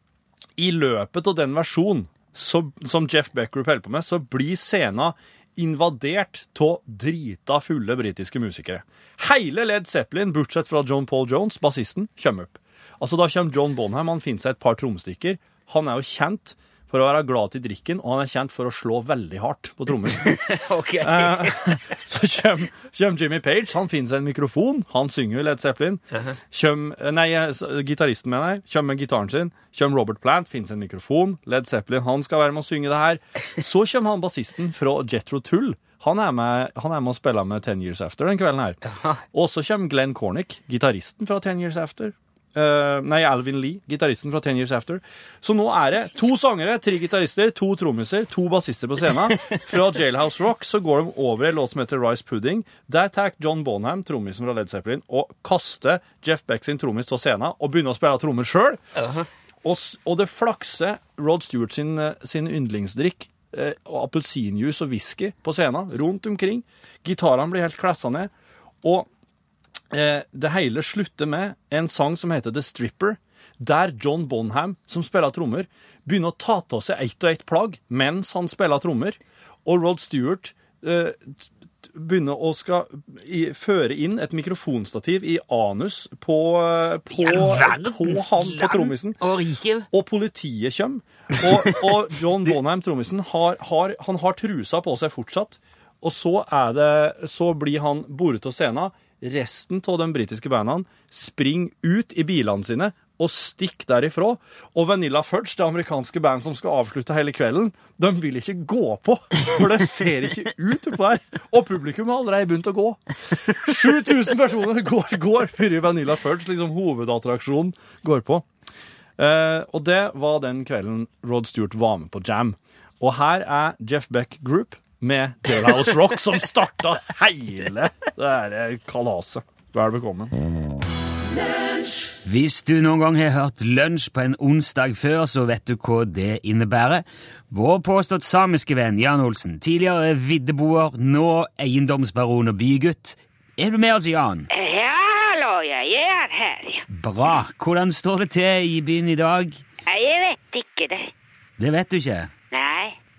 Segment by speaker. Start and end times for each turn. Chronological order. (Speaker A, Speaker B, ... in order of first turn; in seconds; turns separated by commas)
Speaker A: 0.6-58.8, Speaker B: 20.2-21.8, Speaker B: 38.9-39.2, Speaker B: 59.0-59.3, Speaker A: 59.6-68.3, Speaker A: 68.8-69.1, Speaker A: 69.9-89.2, Speaker B: 87.1-89.9, Speaker A: 89.9-118.5, Speaker A: 119.2-130.3, Speaker B: 132.2-144.5, Speaker C: 144.5-146.8, Speaker B: 146.9-149.6, Speaker C: 149.9-151.1, Speaker B: 151.6-152.3, Speaker C: 152.5-153.0